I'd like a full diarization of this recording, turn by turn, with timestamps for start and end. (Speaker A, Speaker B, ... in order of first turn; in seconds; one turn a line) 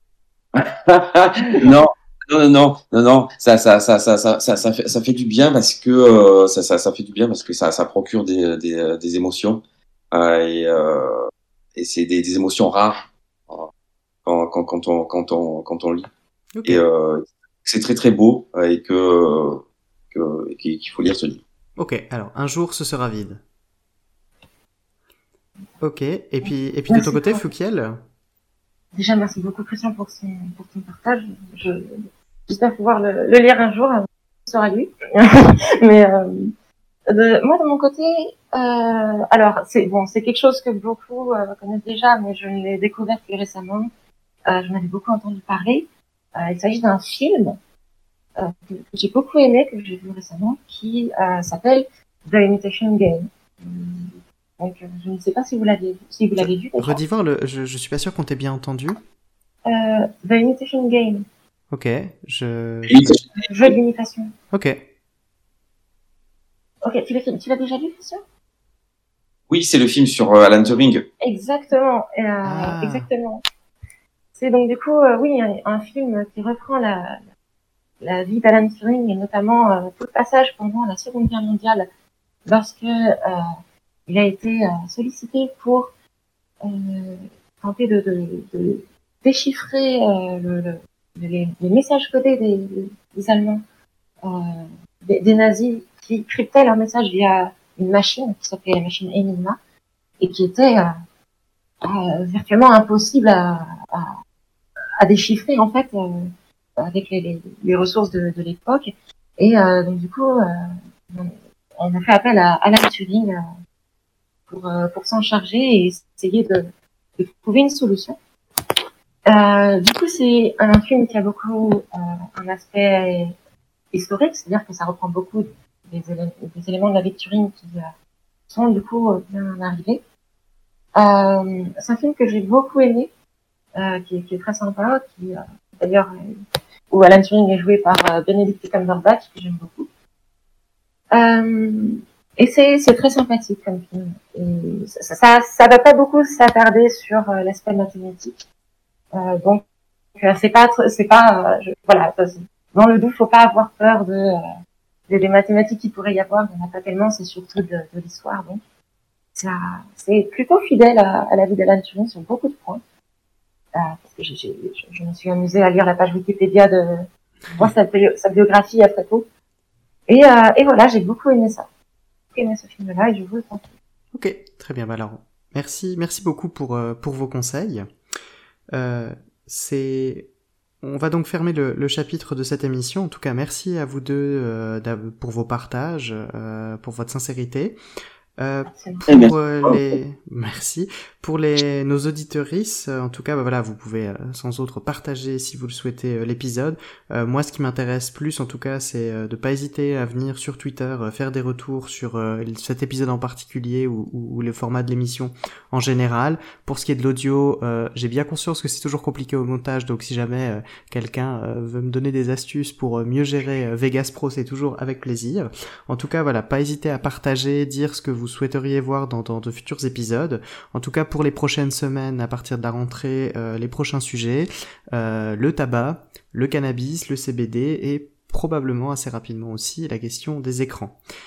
Speaker A: 0.5-13.7
Speaker A: 14.2-16.1
Speaker B: 16.5-16.8
Speaker A: 16.6-21.4
Speaker B: 21.8-23.4
Speaker B: 25.8-28.0
Speaker C: 26.4-27.4
Speaker C: 28.9-36.5
Speaker C: 37.1-43.9
Speaker C: 44.5-47.6
Speaker C: 48.4-57.0
Speaker B: 56.8-59.0
Speaker C: 59.6-61.2
Speaker B: 61.7-63.2
Speaker A: 62.9-63.7
Speaker C: 63.4-64.3
Speaker B: 64.5-64.8
Speaker C: 66.8-68.2
Speaker A: 69.5-71.0
Speaker C: 71.2-73.4
Speaker B: 72.4-73.1
Speaker C: 74.3-77.2
Speaker C: 78.0-81.9
Speaker C: 82.5-83.5
Speaker C: 84.1-85.9
Speaker C: 86.6-93.6
Speaker C: 94.2-99.6
Speaker C: 100.2-100.9
Speaker C: 101.8-104.1
Speaker C: 105.0-113.4
Speaker C: 114.5-118.2
Speaker C: 119.3-123.3
Speaker C: 123.9-127.9
Speaker C: 128.5-130.0
Speaker C: 130.9-133.1
Speaker C: 133.7-136.4
Speaker C: 136.9-139.9
Speaker C: 141.1-148.4
Speaker C: 149.1-149.6
Speaker C: 150.2-154.4
Speaker C: 155.1-158.6
Speaker C: 159.3-162.8
Speaker C: 163.7-169.2
Speaker C: 170.1-171.7
Speaker C: 172.3-173.7
Speaker B: 174.1-177.9
Speaker B: 178.7-180.3
Speaker B: 180.8-187.8
Speaker B: 188.4-231.0
Speaker C: 188.7-189.0
Speaker A: 189.1-189.9